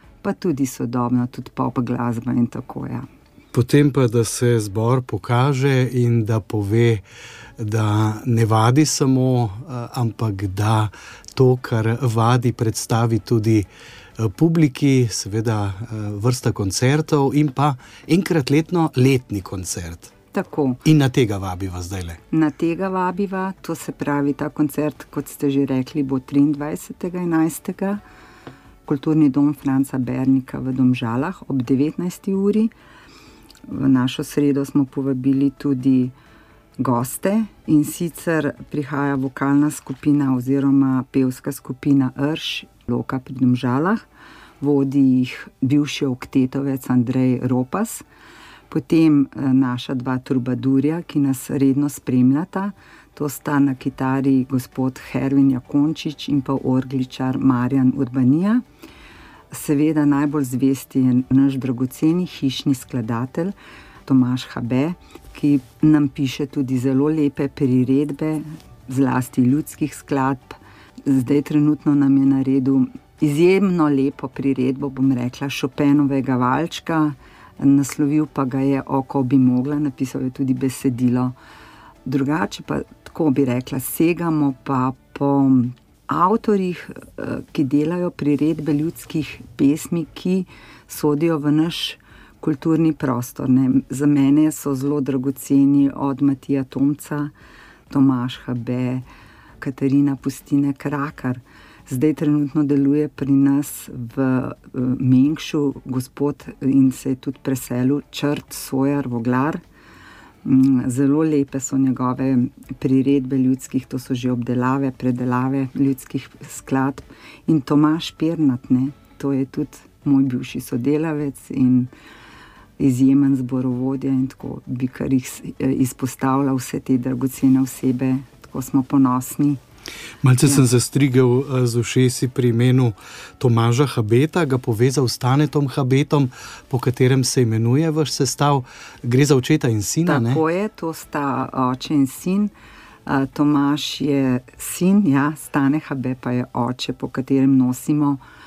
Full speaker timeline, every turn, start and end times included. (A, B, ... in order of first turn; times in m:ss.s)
0:00.2-0:03.0 A
0:03.5-0:07.0 B
0:07.6-0:20.1 B
0:20.3-0:20.8 A
0:20.8-0:22.2 B
0:22.3-0:28.0 A
0:28.8-0:32.7 A
0:33.7-0:36.1 A
0:36.8-0:44.0 A
0:44.6-0:48.0 A
0:48.7-0:58.6 A
0:59.5-1:21.3 A
1:22.0-1:37.3 A
1:37.9-1:39.0 A
1:39.6-1:49.6 A
1:50.4-2:01.9 A
2:02.8-2:09.6 A
2:10.2-2:20.4 B
2:20.0-2:22.5 A
2:23.1-2:28.2 A